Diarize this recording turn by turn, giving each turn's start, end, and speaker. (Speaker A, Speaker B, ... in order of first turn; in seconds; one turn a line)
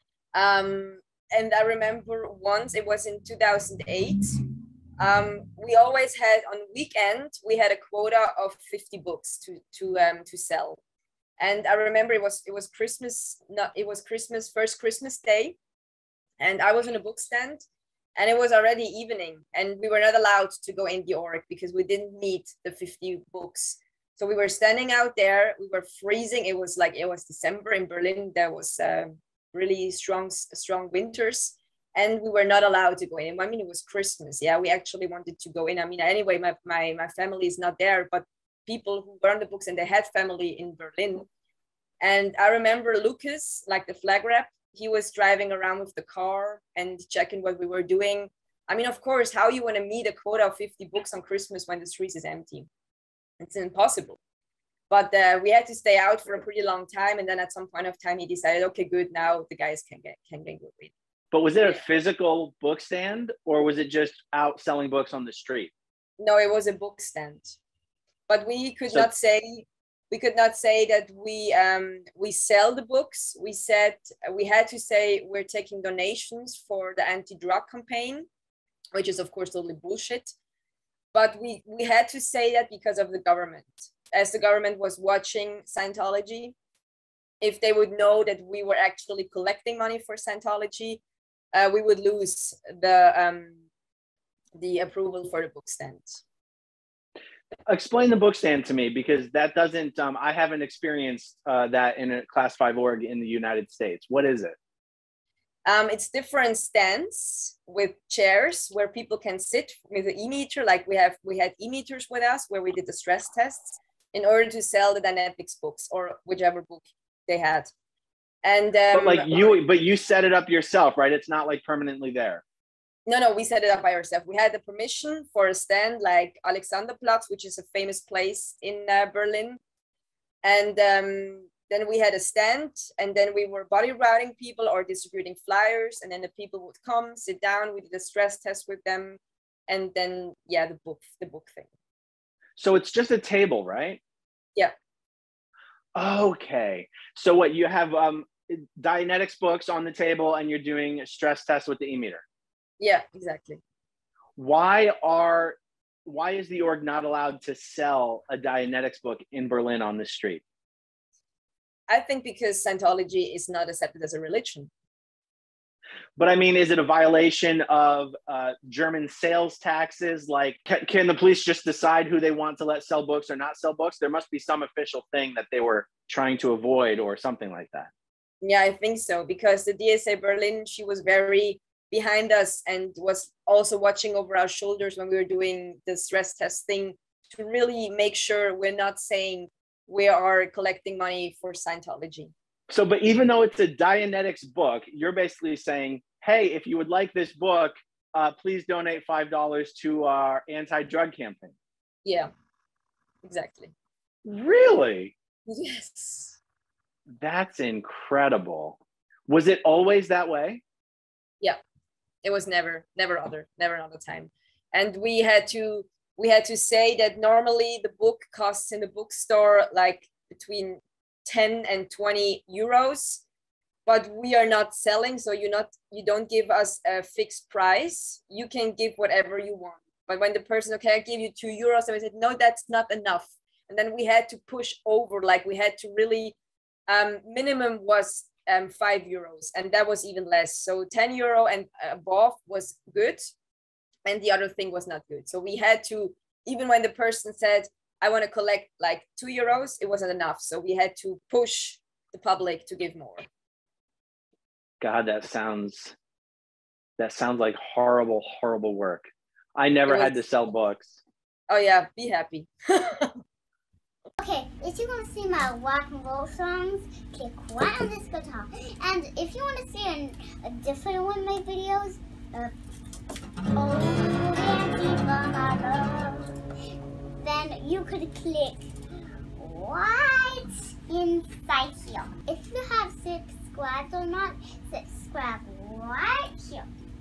Speaker A: 0.3-4.4
Speaker A: 5.0-10.8
Speaker A: 11.4-15.6
Speaker A: 16.4-17.6
Speaker A: 18.1-41.3
Speaker A: 42.0-52.7
Speaker A: 53.4-54.2
Speaker A: 54.9-60.9
Speaker B: 61.3-65.7
Speaker A: 66.2-67.5
Speaker A: 68.3-78.3
Speaker A: 78.9-80.3
Speaker A: 81.1-86.5
Speaker A: 87.4-91.0
Speaker A: 91.5-93.6
Speaker A: 94.5-96.2
Speaker B: 97.7-104.5
Speaker A: 105.7-117.7
Speaker A: 118.4-119.6
Speaker B: 118.9-122.4
Speaker A: 123.1-129.6
Speaker A: 130.4-141.7
Speaker B: 142.6-144.0
Speaker B: 145.9-152.2
Speaker A: 152.8-153.6
Speaker B: 154.4-160.4
Speaker A: 161.9-164.7
Speaker B: 166.2-177.9
Speaker A: 178.4-192.3
Speaker B: 192.7-201.5
Speaker A: 203.2-203.7
Speaker B: 204.2-205.1
Speaker A: 205.5-206.4
Speaker B: 207.2-210.6
Speaker A: 212.2-223.2
Speaker A: 223.8-236.3
Speaker A: 236.9-243.3
Speaker A: 244.1-253.3
Speaker B: 254.8-255.9
Speaker B: 257.0-261.0
Speaker A: 259.9-260.3
Speaker A: 261.5-263.2
Speaker C: 264.2-272.5
Speaker C: 273.5-276.3
Speaker C: 277.2-278.7
Speaker C: 279.4-286.7